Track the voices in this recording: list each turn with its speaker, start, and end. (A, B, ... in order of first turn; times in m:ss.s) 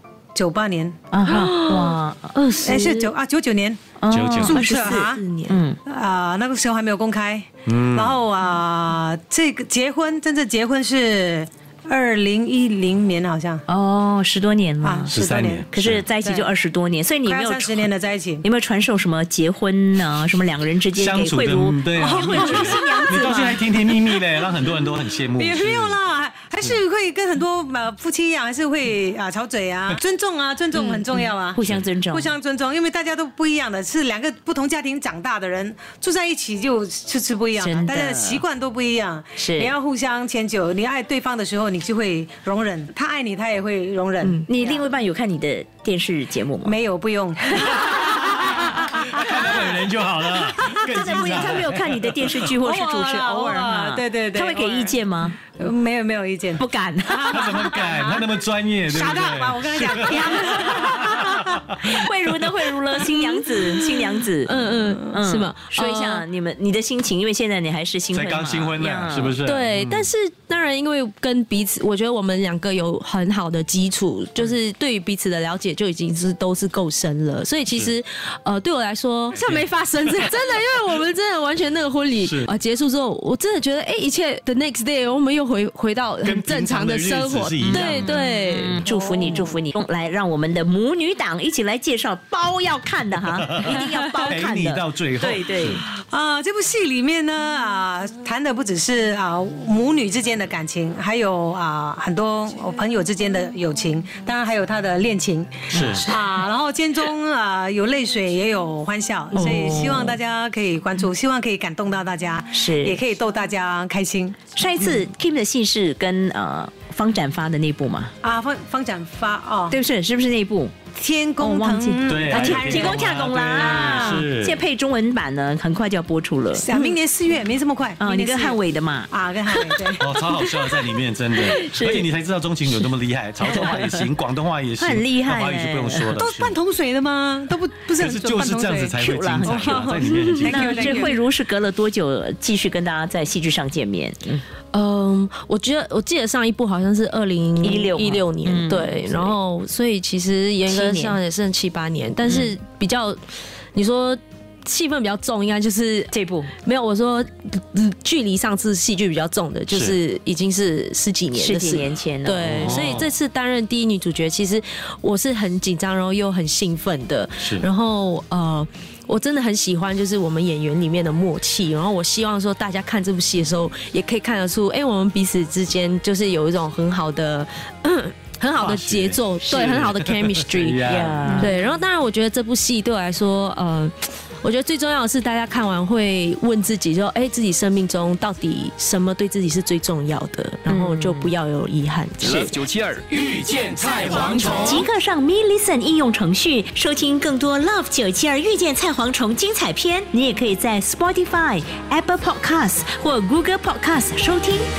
0:00.3-0:01.0 A
0:01.1-0:02.3 B
0:01.2-0:03.1 C
0:02.6-0:03.8 A
0:04.0-0:05.8 B
0:04.1-0:04.6 D
0:04.4-0:05.2 A
0:04.9-0:05.6 C
0:05.8-0:13.6 A
0:07.7-0:08.2 D
0:13.7-0:15.1 B
0:14.8-0:15.7 A
0:15.1-0:16.0 D
0:15.7-0:17.9 B
0:16.2-0:16.5 A
0:17.2-0:18.4 A
0:18.4-0:23.6 B
0:20.9-0:26.0 D
0:22.0-0:24.1 A
0:25.4-0:31.6 A
0:30.7-0:32.3 B
0:32.1-0:44.9 A
0:37.6-0:38.4 B
0:39.4-0:39.7 B
0:44.5-0:46.8 B
0:46.6-0:49.3 A
0:48.3-0:52.5 D
0:50.7-0:55.4 B
0:51.2-0:51.4 A
0:52.4-0:55.0 A
0:55.5-0:58.2 A
0:56.6-0:57.8 B
0:57.2-1:02.0 D
0:58.9-1:01.4 A
0:59.7-1:09.4 B
1:03.0-1:06.2 C
1:08.1-1:10.1 D
1:09.4-1:28.8 C
1:17.7-1:17.9 D
1:19.3-1:20.5 D
1:22.2-1:22.5 D
1:26.2-1:28.2 D
1:27.7-1:35.8 B
1:28.8-1:29.5 A
1:33.5-1:35.8 D
1:35.7-1:54.4 A
1:45.7-1:46.0 D
1:45.7-1:46.1 B
1:49.3-1:50.2 B
1:49.4-1:50.0 C
1:52.5-1:53.0 B
1:54.5-1:58.1 B
1:58.2-1:59.8 A
1:59.7-2:00.7 B
2:01.0-2:04.3 A
2:01.4-2:06.7 B
2:02.1-2:04.6 D
2:06.5-2:10.1 A
2:08.0-2:09.8 B
2:10.0-2:16.6 D
2:10.4-2:12.0 B
2:13.4-2:14.0 B
2:14.8-2:16.2 B
2:16.2-2:21.2 A
2:18.0-2:20.7 D
2:19.0-2:24.4 B
2:24.7-2:33.2 C
2:27.6-2:29.4 B
2:30.7-2:31.2 B
2:32.3-2:32.5 B
2:33.7-2:36.1 C
2:36.1-2:36.5 B
2:36.6-3:12.6 C
2:39.7-2:40.0 D
2:41.3-2:42.7 B
2:42.4-2:43.1 D
2:47.4-2:47.7 D
2:58.6-3:01.5 D
3:00.8-3:01.5 B
3:10.7-3:11.3 B
3:12.2-3:14.8 E
3:14.2-3:24.7 B